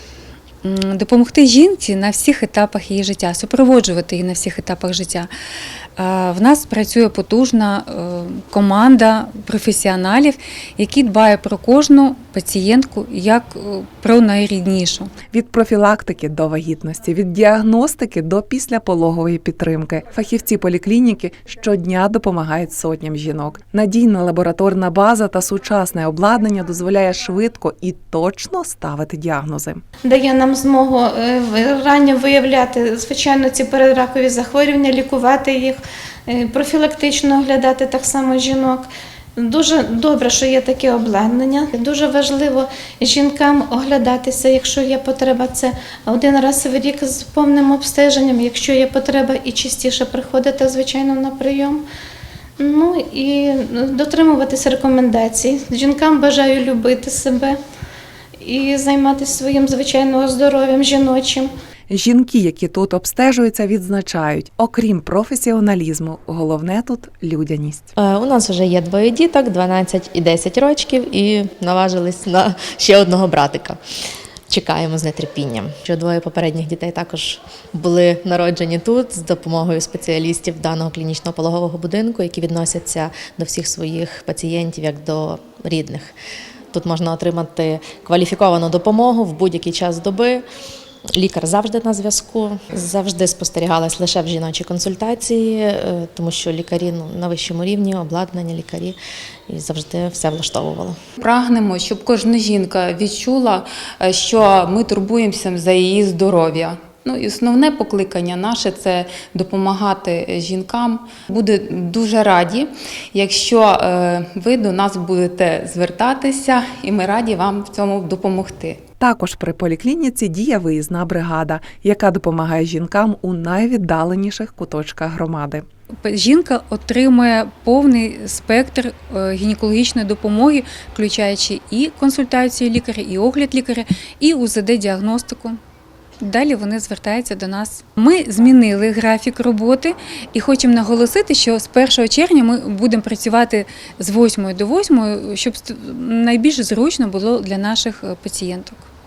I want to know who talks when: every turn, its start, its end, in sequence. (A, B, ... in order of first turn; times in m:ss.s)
0:00.6-0:05.3 A
0:06.0-0:15.1 A
0:15.3-0:29.8 B
0:30.0-0:38.9 C
0:39.4-0:51.8 C
0:52.6-0:57.6 C
0:58.4-1:01.5 C
1:01.9-1:08.0 B
1:08.0-1:13.8 D
1:14.5-1:26.1 D
1:26.7-1:30.4 D
1:31.1-1:39.0 D
1:39.5-1:41.0 D
1:41.2-1:58.8 E
1:59.0-2:05.6 B
2:06.0-2:15.6 A
2:16.2-2:28.9 A